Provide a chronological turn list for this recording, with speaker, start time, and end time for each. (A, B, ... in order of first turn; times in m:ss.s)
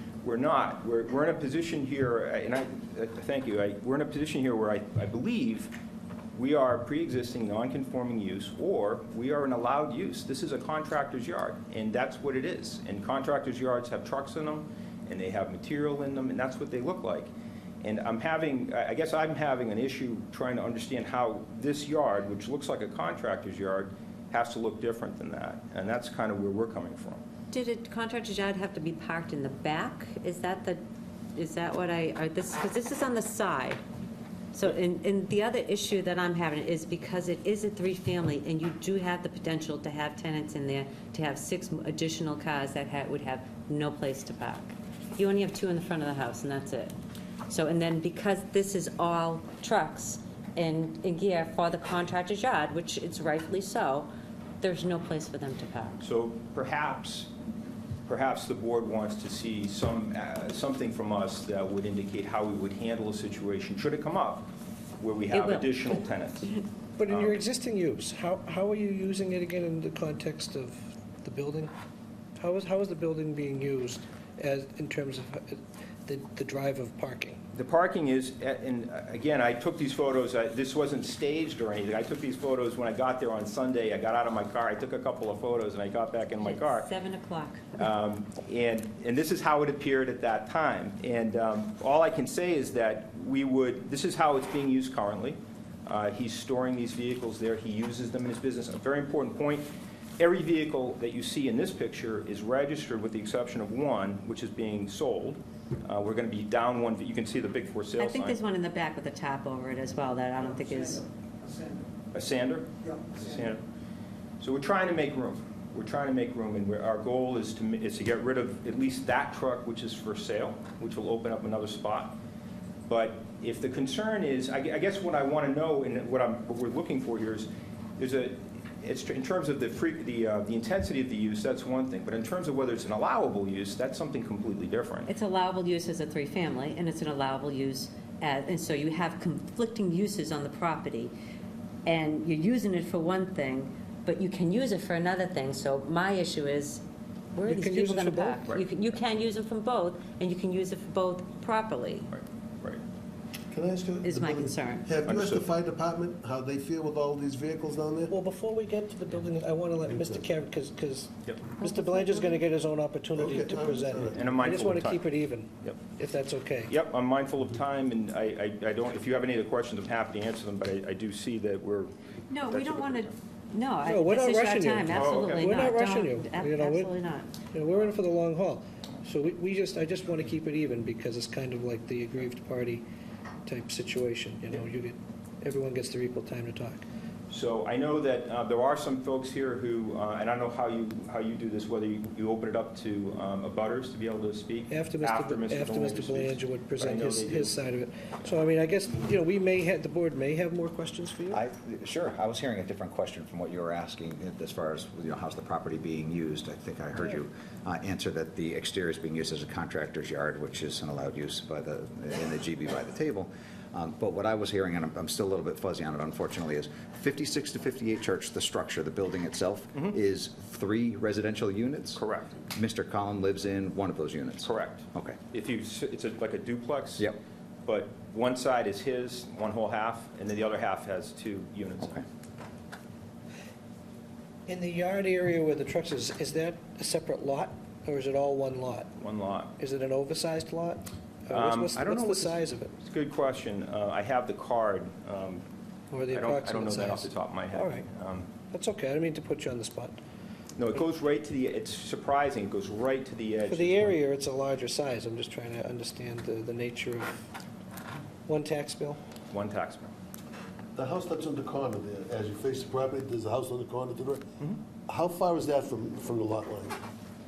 0:00.2-0:05.7 A
0:06.3-0:17.3 A
0:17.8-0:27.2 A
0:27.5-0:30.8 B
0:31.4-0:33.8 B
0:34.5-0:46.9 B
0:47.5-0:54.1 B
0:54.6-0:56.0 B
0:56.0-0:57.3 A
0:58.1-1:04.5 A
1:05.0-1:06.5 A
1:05.3-1:06.0 B
1:07.0-1:11.7 C
1:07.1-1:07.4 A
1:12.4-1:17.4 C
1:17.5-1:26.9 A
1:26.4-1:27.8 B
1:27.8-1:39.7 A
1:40.2-1:48.4 A
1:48.0-1:51.0 B
1:52.1-1:53.6 A
1:54.4-2:02.2 A
2:02.9-2:15.1 A
2:15.1-2:21.1 B
2:21.8-2:26.8 B
2:27.3-2:32.1 B
2:27.4-2:28.4 C
2:32.1-2:32.8 A
2:33.5-2:38.1 D
2:34.0-2:34.9 B
2:35.1-2:35.5 A
2:38.1-2:46.7 C
2:39.9-2:40.2 D
2:41.6-2:42.4 B
2:43.1-2:44.2 D
2:44.1-2:45.1 A
2:46.7-2:53.1 A
2:52.3-2:57.3 B
2:53.9-2:56.9 C
2:54.9-2:55.6 A
2:57.5-3:02.8 C
3:03.4-3:06.8 C
3:07.3-3:17.5 A
3:14.7-3:21.4 C
3:21.3-3:45.2 E
3:41.9-3:42.4 A
3:44.4-3:47.1 A
3:47.6-3:52.0 A
3:54.5-3:58.9 C
3:59.0-3:59.5 A
3:59.6-4:02.7 C
4:01.3-4:05.4 A
4:05.9-4:07.8 C
4:06.1-4:08.3 A
4:08.5-4:10.0 C
4:10.6-4:14.0 A
4:13.5-4:17.2 C
4:18.2-4:19.0 C
4:19.3-4:19.9 A
4:20.7-4:24.2 D
4:24.8-4:26.8 D